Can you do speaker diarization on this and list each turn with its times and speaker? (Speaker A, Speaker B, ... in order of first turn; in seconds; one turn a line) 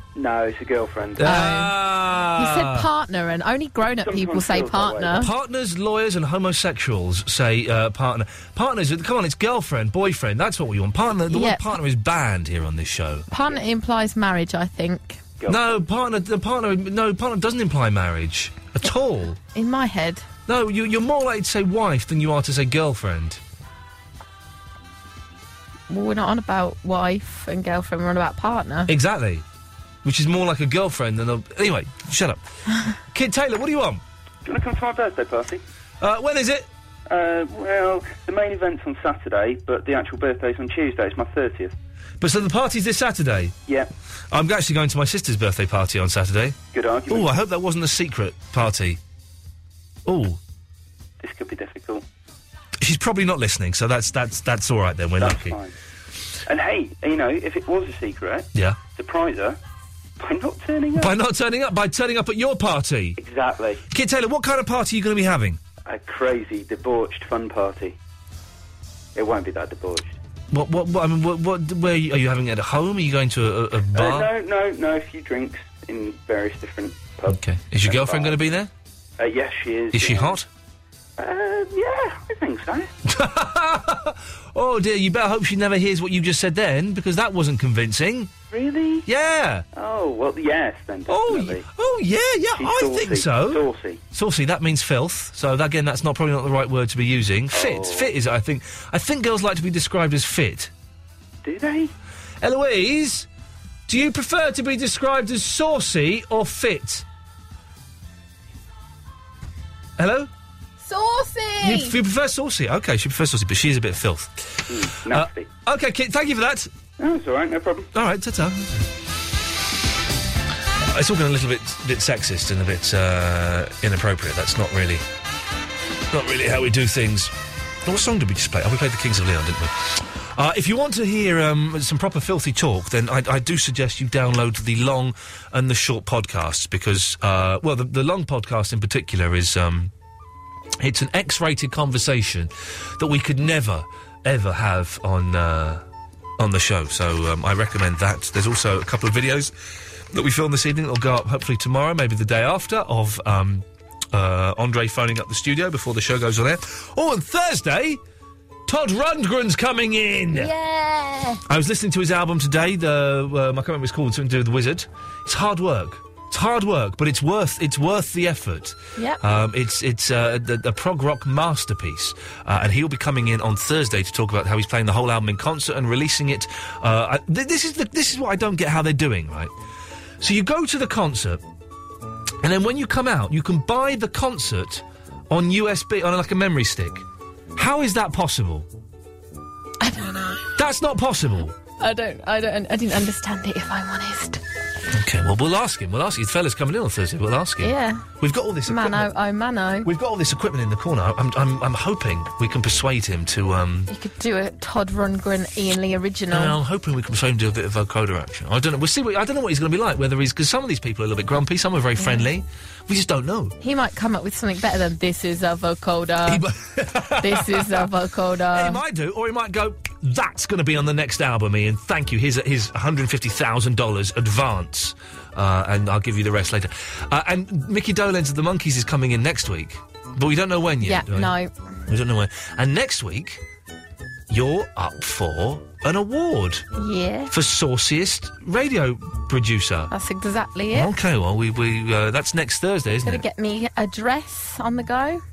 Speaker A: 0.1-1.2
Speaker B: 1.2-2.9
Speaker C: 1.2-1.7
Speaker C: 2.4-5.3
Speaker A: 4.0-5.2
Speaker B: 5.2-13.3
Speaker C: 11.3-11.6
Speaker C: 13.3-15.2
Speaker B: 15.5-19.4
Speaker C: 19.5-20.2
Speaker B: 20.5-23.4
Speaker C: 25.9-28.9
Speaker B: 28.9-29.4
Speaker B: 30.0-32.4
Speaker B: 33.1-34.0
Speaker A: 34.4-35.6
Speaker B: 36.0-36.7
Speaker A: 37.1-41.7
Speaker B: 42.2-43.5
Speaker B: 44.3-49.0
Speaker A: 46.7-47.3
Speaker B: 50.0-50.4
Speaker A: 51.2-52.0
Speaker B: 52.8-55.6
Speaker A: 55.2-55.7
Speaker A: 56.5-59.6
Speaker B: 58.5-58.8
Speaker A: 60.2-61.1
Speaker B: 61.0-63.2
Speaker A: 63.2-63.8
Speaker B: 63.9-65.6
Speaker A: 65.8-68.0
Speaker A: 69.1-70.2
Speaker B: 70.5-74.3
Speaker A: 73.9-78.4
Speaker B: 77.3-78.7
Speaker A: 79.2-80.4
Speaker B: 79.9-80.5
Speaker A: 81.2-82.9
Speaker B: 83.0-88.3
Speaker A: 88.5-89.0
Speaker B: 89.0-89.6
Speaker A: 89.7-91.6
Speaker B: 91.1-100.7
Speaker A: 92.6-94.0
Speaker A: 97.5-98.1
Speaker A: 101.4-101.9
Speaker B: 102.4-103.3
Speaker B: 103.9-107.0
Speaker B: 110.0-110.3
Speaker C: 110.8-112.0
Speaker B: 111.6-116.7
Speaker A: 114.7-115.5
Speaker A: 117.0-117.9
Speaker B: 117.9-118.8
Speaker B: 120.8-125.0
Speaker B: 126.1-139.9
Speaker B: 140.8-145.8
Speaker B: 146.4-149.5
Speaker B: 150.1-158.0
Speaker B: 158.7-160.5
Speaker C: 160.3-161.4
Speaker B: 161.5-179.5
Speaker B: 180.2-181.4
Speaker B: 182.4-187.0
Speaker B: 187.6-188.7
Speaker C: 189.8-190.5
Speaker B: 190.6-191.5
Speaker C: 191.8-194.4
Speaker B: 194.9-199.1
Speaker C: 197.6-198.1
Speaker C: 198.7-199.9
Speaker B: 199.8-203.9
Speaker C: 203.9-206.5
Speaker B: 206.3-213.5
Speaker C: 212.0-212.2
Speaker C: 213.6-216.4
Speaker B: 216.3-217.9
Speaker C: 217.2-218.8
Speaker B: 218.5-231.3
Speaker C: 230.8-231.5
Speaker B: 231.9-233.4
Speaker B: 234.3-236.6
Speaker C: 236.8-237.3
Speaker B: 237.3-239.9
Speaker C: 239.9-240.9
Speaker B: 240.7-243.2
Speaker C: 243.0-245.2